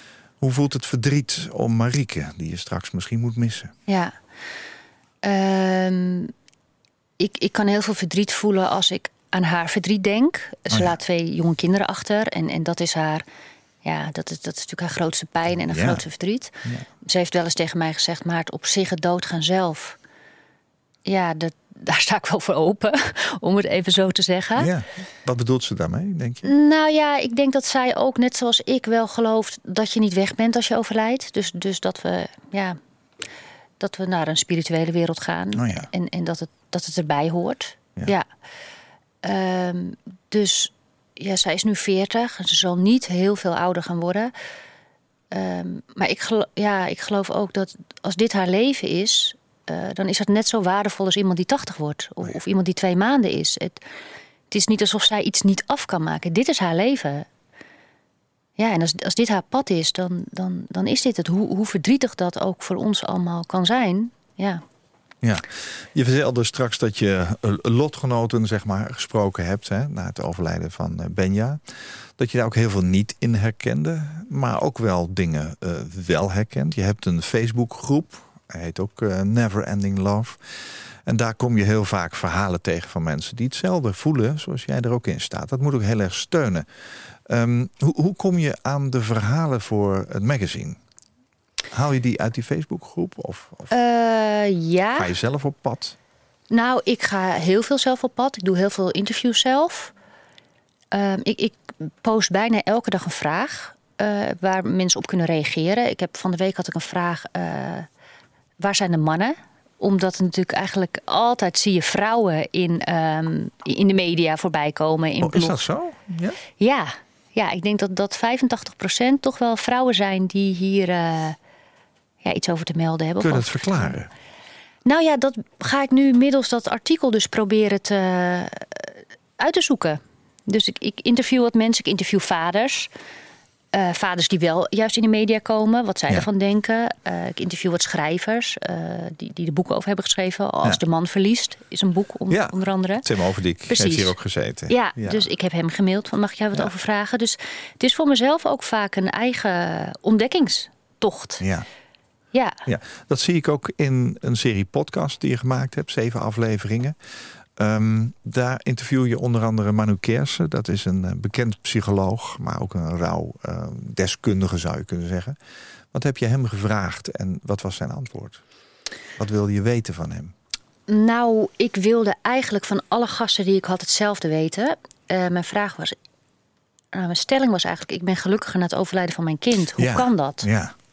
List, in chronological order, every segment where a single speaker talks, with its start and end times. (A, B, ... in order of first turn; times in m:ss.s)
0:00.4-0:03.7 A
0:03.9-0:04.2 B
0:05.2-0:06.3 B
0:07.2-0:13.2 B
0:10.7-0:11.0 A
0:13.8-0:20.0 B
0:15.7-0:16.0 A
0:21.1-0:24.7 B
0:24.6-0:26.5 A
0:26.4-0:32.8 B
0:33.8-0:38.2 B
0:35.6-0:35.9 A
0:39.2-0:44.3 B
0:45.3-0:53.8 B
0:54.5-0:57.3 B
0:58.6-1:04.6 B
1:05.2-1:26.7 A
1:27.3-1:30.8 A
1:31.7-1:33.7 A
1:33.7-1:35.1 B
1:35.0-1:36.0 A
1:36.5-1:39.9 B
1:40.9-1:47.9 B
1:48.6-1:55.6 B
1:55.2-1:56.4 A
1:56.6-2:01.4 B
2:02.2-2:03.9 B
2:03.2-2:04.1 A
2:04.8-2:12.9 B
2:13.7-2:23.0 B
2:22.3-2:25.3 A
2:23.7-2:24.2 B
2:24.7-2:31.5 B
2:31.4-2:31.7 A
2:32.3-2:32.6 B
2:32.6-2:37.0 A
2:37.6-2:45.4 A
2:45.9-2:48.4 A
2:49.2-2:50.3 A
2:50.9-2:56.0 B
2:56.9-3:00.5 B
2:59.8-3:00.8 A